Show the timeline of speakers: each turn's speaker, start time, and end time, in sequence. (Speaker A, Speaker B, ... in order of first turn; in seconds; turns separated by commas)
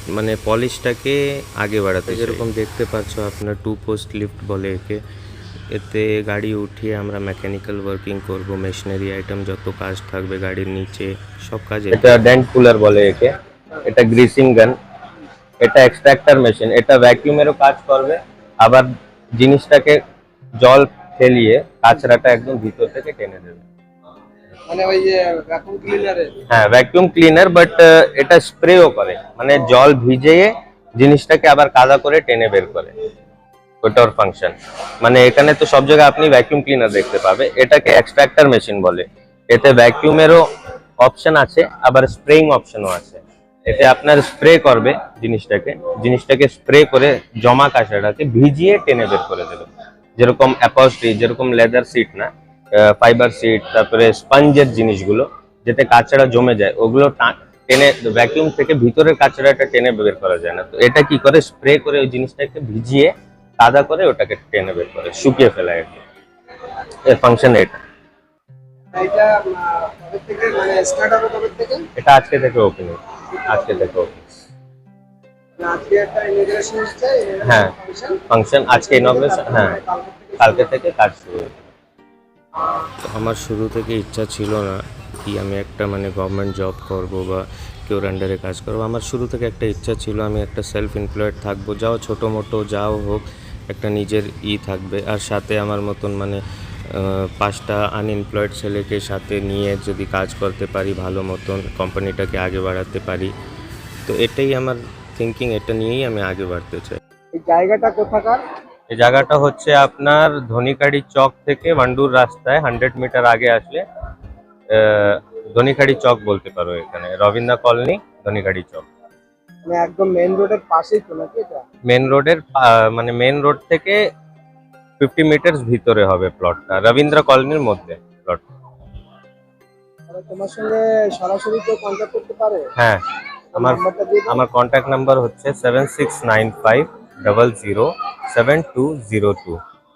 Speaker A: 0.1-5.0, Speaker B: 2.1-2.4, Speaker A: 5.7-12.2, Speaker B: 11.9-14.8, Speaker B: 15.6-20.0, Speaker B: 20.6-23.6, Speaker C: 24.7-26.4, Speaker B: 26.5-32.9, Speaker B: 33.8-40.4, Speaker B: 41.0-49.7, Speaker B: 50.2-66.0, Speaker B: 67.1-67.8, Speaker C: 68.9-71.8, Speaker B: 72.0-74.2, Speaker C: 73.5-73.9, Speaker C: 75.6-80.7, Speaker B: 77.5-77.7, Speaker B: 78.3-79.8, Speaker B: 80.4-81.6, Speaker C: 82.6-82.9, Speaker A: 83.1-103.3, Speaker A: 104.1-107.0, Speaker C: 107.3-108.4, Speaker B: 108.9-113.8, Speaker B: 114.7-118.8, Speaker C: 119.7-121.6, Speaker B: 121.9-124.0, Speaker B: 125.0-128.4, Speaker C: 130.1-132.6, Speaker C: 133.6-134.4, Speaker B: 133.6-139.6